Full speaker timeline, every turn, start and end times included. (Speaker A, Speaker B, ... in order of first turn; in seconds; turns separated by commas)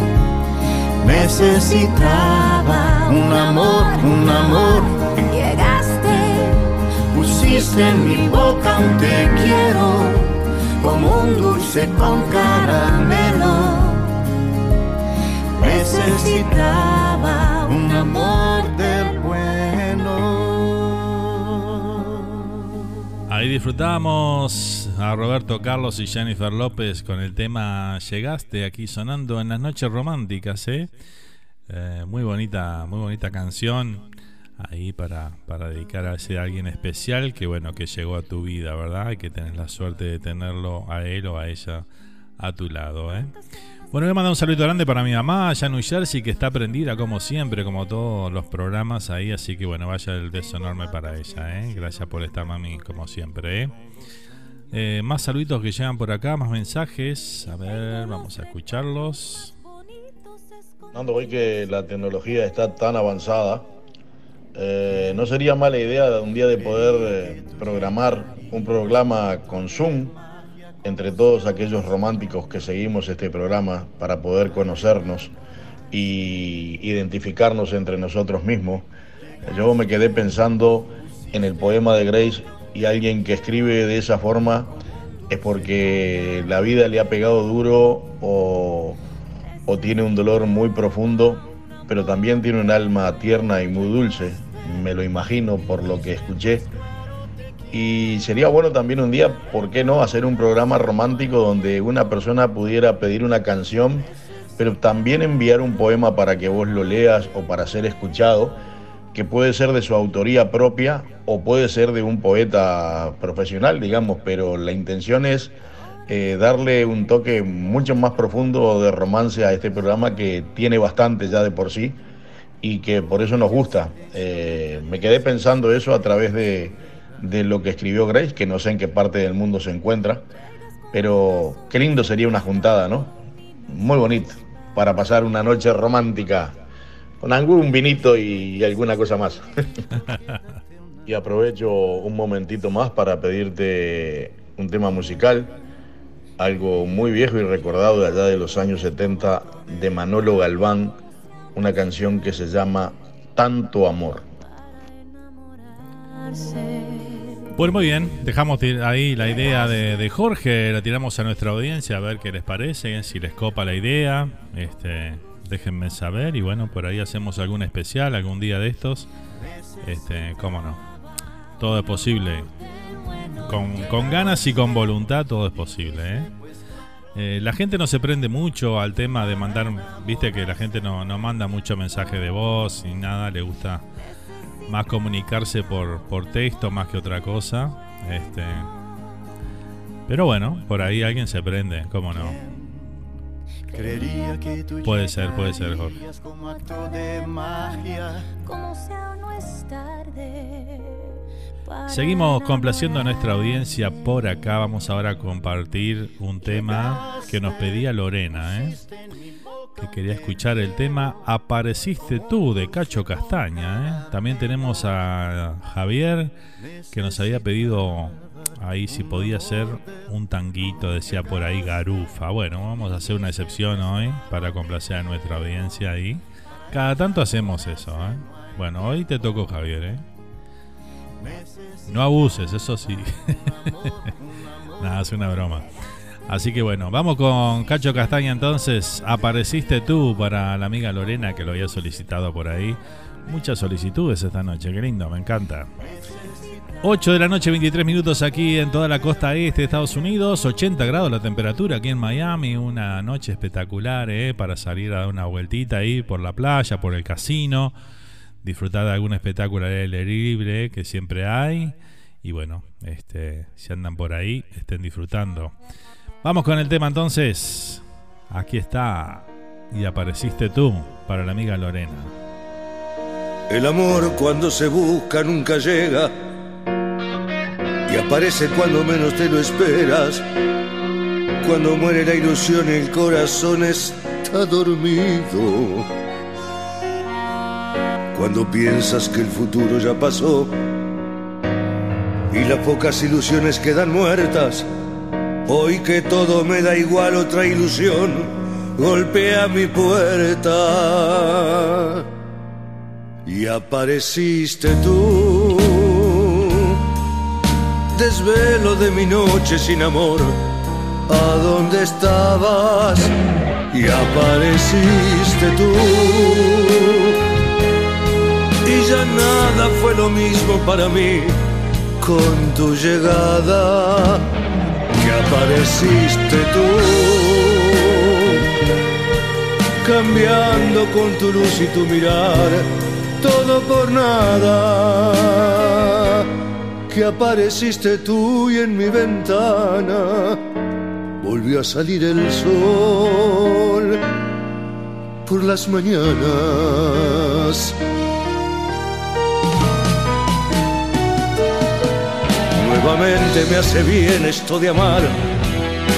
Speaker A: 1.0-5.1, Speaker B: 2.0-6.6, Speaker A: 7.1-13.8, Speaker B: 13.4-14.1, Speaker A: 15.6-17.1, Speaker B: 15.6-18.6, Speaker A: 17.6-21.3, Speaker C: 23.3-30.9, Speaker C: 31.7-34.0, Speaker C: 34.6-41.9, Speaker C: 42.4-43.3, Speaker C: 43.9-53.7, Speaker C: 54.7-59.5, Speaker B: 57.9-58.5, Speaker B: 60.0-60.3, Speaker D: 60.9-63.7, Speaker D: 64.5-70.2, Speaker A: 67.0-67.6, Speaker D: 70.8-75.3, Speaker D: 75.9-78.9, Speaker D: 79.5-84.7, Speaker D: 85.3-89.0, Speaker D: 89.7-96.7, Speaker D: 97.7-104.1, Speaker D: 104.6-108.6, Speaker D: 109.1-115.5, Speaker D: 116.1-122.0, Speaker D: 122.6-130.3, Speaker D: 130.9-133.1, Speaker D: 133.7-136.6, Speaker D: 137.2-139.5, Speaker C: 140.1-140.4, Speaker D: 141.1-145.5, Speaker D: 146.4-150.9, Speaker D: 151.6-154.3, Speaker B: 155.0-155.3, Speaker B: 155.9-157.5, Speaker C: 157.6-169.1, Speaker C: 169.8-170.8, Speaker C: 171.6-172.5, Speaker C: 173.4-176.3, Speaker C: 177.2-183.8, Speaker C: 184.7-188.7, Speaker C: 190.1-192.4, Speaker A: 192.1-193.1, Speaker A: 193.7-198.3, Speaker C: 194.8-196.0, Speaker B: 198.4-203.0, Speaker C: 201.9-208.8, Speaker A: 206.4-210.1, Speaker C: 209.8-216.3, Speaker A: 216.9-218.2, Speaker C: 216.9-230.0, Speaker A: 218.9-219.9, Speaker A: 231.2-232.1, Speaker C: 231.9-234.1, Speaker A: 233.5-235.3, Speaker C: 234.8-235.7, Speaker C: 236.3-245.7, Speaker C: 246.8-257.8, Speaker C: 258.4-265.5, Speaker C: 266.2-272.1, Speaker E: 273.5-276.1, Speaker E: 277.9-280.2, Speaker E: 281.4-285.9, Speaker E: 288.1-290.5, Speaker E: 292.3-294.7, Speaker E: 295.5-302.0, Speaker E: 303.3-306.8, Speaker E: 307.9-310.4, Speaker E: 311.1-313.1, Speaker E: 313.7-317.1, Speaker E: 318.6-321.4, Speaker E: 322.0-324.2, Speaker E: 325.0-328.4, Speaker E: 329.8-332.7, Speaker E: 333.2-336.2, Speaker E: 336.9-340.4, Speaker E: 341.2-344.0, Speaker E: 345.3-347.7, Speaker E: 352.5-355.1